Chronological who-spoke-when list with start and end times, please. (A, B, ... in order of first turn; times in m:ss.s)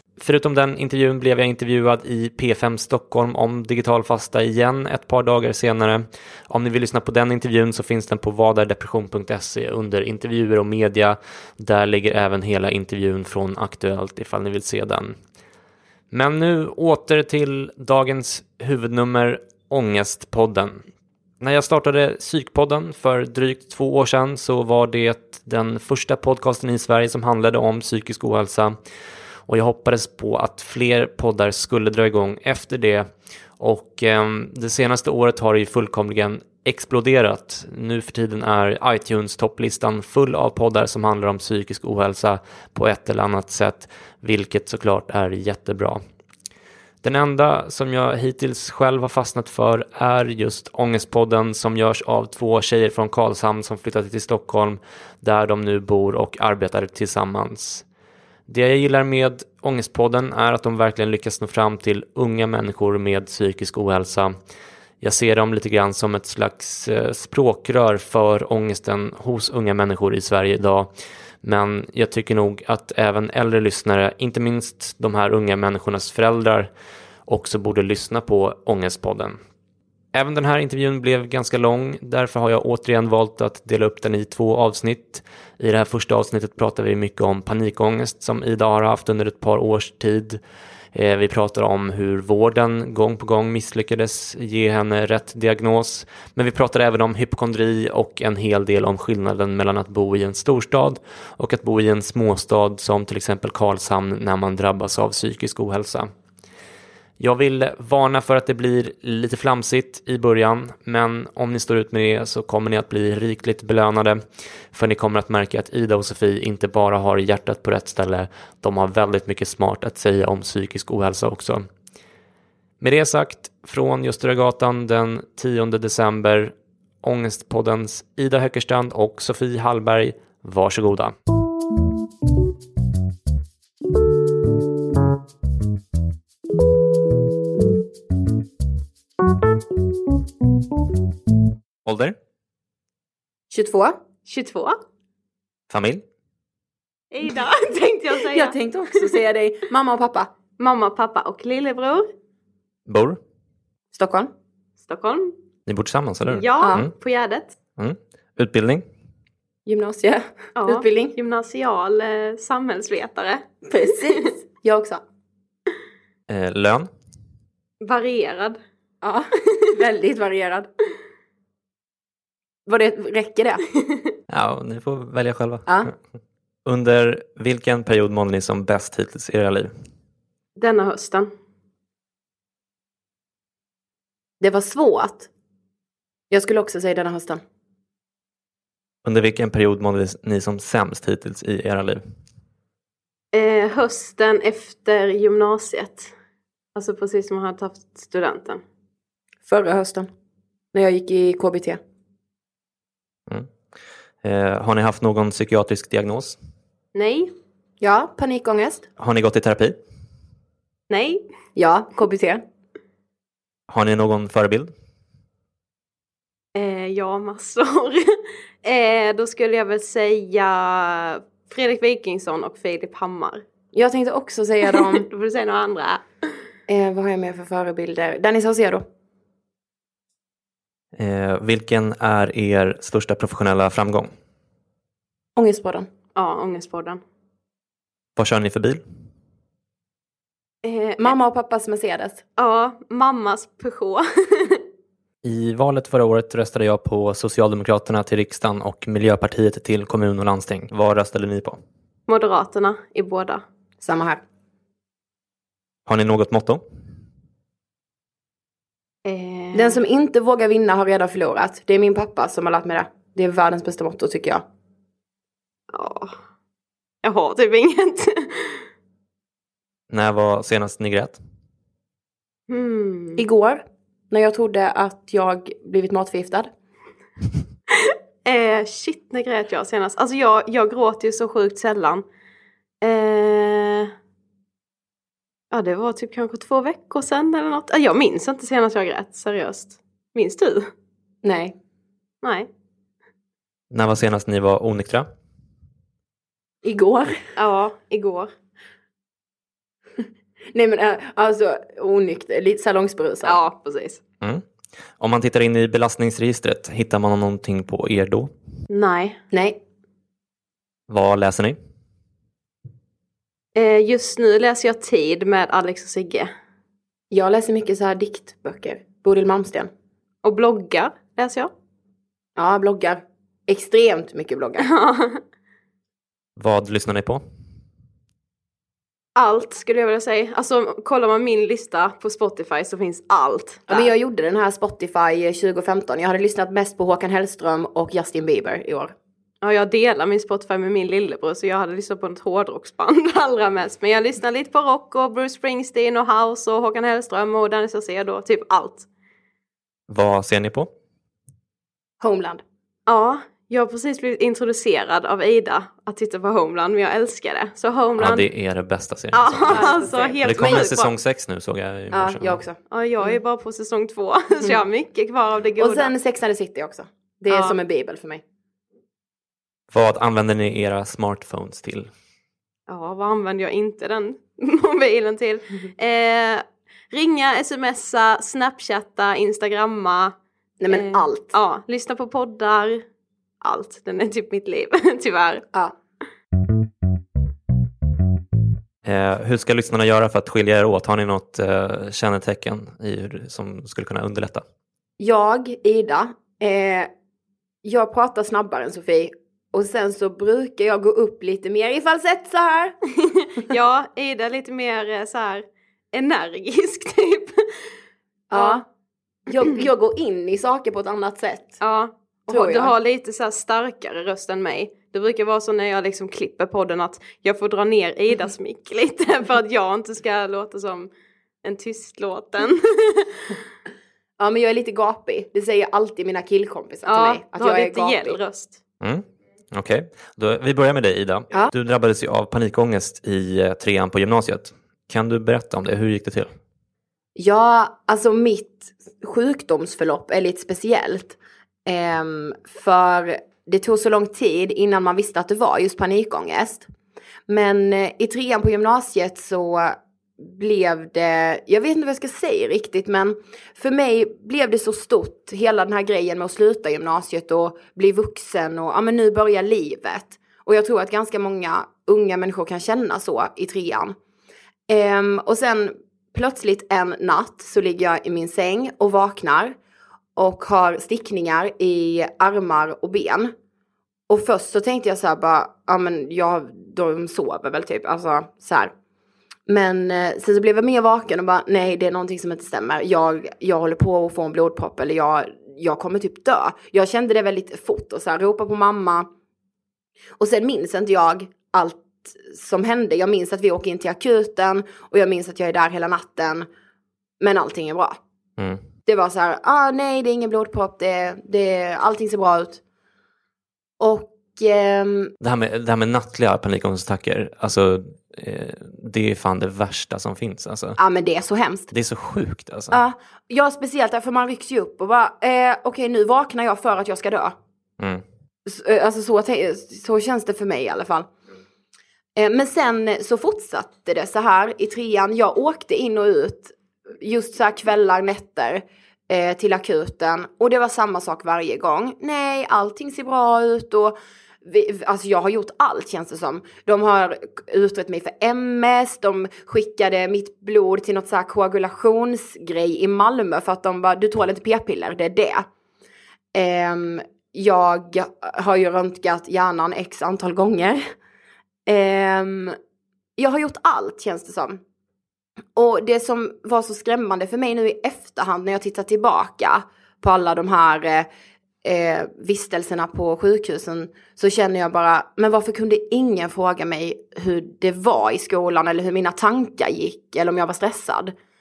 0:00.2-0:15.2 A
0:16.1-0:20.8 A
0:21.4-0:28.8 A
0:29.5-0:46.0 A
0:47.0-0:57.8 A
0:58.5-1:04.4 A
1:05.0-1:10.9 A
1:11.4-1:16.7 A
1:17.3-1:19.4 A
1:20.1-1:30.4 A
1:30.9-1:46.1 A
1:47.2-2:01.7 A
2:02.8-2:11.2 A
2:21.9-2:22.2 A
2:23.5-2:24.0 B
2:24.3-2:24.8 C
2:25.7-2:26.0 A
2:27.1-2:29.1 C
2:28.2-2:30.3 B
2:30.6-2:32.1 C
2:32.9-2:33.2 A
2:33.9-2:34.3 B
2:34.8-2:35.3 C
2:35.7-2:36.9 A
2:36.3-2:37.5 C
2:36.6-2:36.8 B
2:37.8-2:38.8 A
2:39.7-2:41.2 B
2:40.6-2:43.5 C
2:43.6-2:45.0 B
2:46.3-2:46.9 A
2:47.8-2:48.6 C
2:49.0-2:50.7 B
2:52.7-2:53.6 B
2:54.3-2:55.9 A
2:56.7-2:59.7 A
3:00.6-3:01.3 C
3:04.4-3:05.3 B
3:06.3-3:07.4 B
3:09.0-3:12.0 A
3:13.3-3:16.1 C
3:16.8-3:18.6 C
3:19.5-3:20.1 B
3:20.7-3:21.8 B
3:24.2-3:26.4 A
3:27.0-3:27.3 C
3:27.8-3:28.9 B
3:29.0-3:29.8 A
3:30.9-3:31.2 C
3:31.6-3:32.4 B
3:33.7-3:34.7 A
3:36.6-3:43.4 C
3:43.7-3:45.1 B
3:44.7-3:46.0 C
3:46.7-3:48.9 B
3:51.0-3:54.1 A
3:55.4-3:55.9 B
3:56.2-3:57.0 C
3:58.2-3:58.8 A
4:00.6-4:01.1 C
4:01.0-4:02.2 B
4:02.4-4:04.6 C
4:05.2-4:11.6 A
4:12.1-4:13.4 C
4:13.8-4:14.2 B
4:15.9-4:16.6 A
4:19.0-4:19.8 C
4:19.5-4:24.4 B
4:25.7-4:26.2 C
4:27.0-4:28.6 C
4:29.9-4:31.2 A
4:32.5-4:33.2 C
4:33.2-4:36.5 B
4:37.8-4:42.0 C
4:42.8-4:43.9 C
4:45.5-4:50.7 C
4:51.2-4:51.6 B
4:52.2-4:52.5 C
4:53.7-4:55.1 A
4:56.6-4:57.2 B
4:57.4-4:58.3 C
5:00.5-5:03.4 B
5:03.2-5:04.0 C
5:05.0-5:08.3 A
5:08.7-5:09.2 C
5:09.3-5:09.6 B
5:10.9-5:11.6 A
5:13.6-5:16.3 C
5:17.1-5:19.7 B
5:20.2-5:21.5 C
5:22.4-5:24.7 B
5:24.6-5:25.2 C
5:26.4-5:27.2 A
5:29.2-5:33.9 C
5:33.7-5:39.0 B
5:39.4-5:48.9 C
5:49.9-5:50.7 A
5:52.0-5:52.4 B
5:52.9-5:58.3 C
5:58.0-5:59.6 A
5:59.1-6:00.9 C
5:59.5-6:00.6 B
6:00.2-6:02.4 A
6:01.9-6:03.2 B
6:02.7-6:05.9 C
6:05.6-6:08.2 B
6:07.3-6:07.6 C
6:09.7-6:11.9 A
6:12.7-6:20.1 C
6:20.6-6:21.4 B
6:20.7-6:22.8 C
6:23.4-6:25.4 C
6:28.8-6:34.4 A
6:35.0-6:36.9 B
6:37.6-6:42.8 B
6:43.4-6:47.7 C
6:48.3-6:48.6 B
6:48.3-6:48.6 C
6:49.3-6:51.6 B
6:51.6-7:00.9 C
6:52.3-6:52.7 B
7:01.4-7:03.4 C
7:04.2-7:08.2 B
7:06.9-7:08.6 C
7:08.8-7:16.4 A
7:17.2-7:26.7 B
7:27.3-7:44.0 B
7:44.7-7:49.6 B
7:50.2-7:53.3 B
7:54.1-7:58.7 B
7:59.5-8:09.1 B
8:10.2-8:16.5 B
8:17.2-8:18.0 B
8:18.4-8:18.6 A
8:18.9-8:22.6 B
8:23.8-8:25.1 B
8:25.2-8:30.8 A
8:30.8-8:31.7 B
8:31.7-8:32.8 A
8:32.7-8:37.4 B
8:37.8-8:38.0 A
8:38.5-8:41.1 B
8:42.2-9:05.5 B
9:06.3-9:10.9 B
9:11.7-9:12.6 B
9:13.2-9:14.6 B
9:15.6-9:21.1 B
9:21.6-9:31.1 B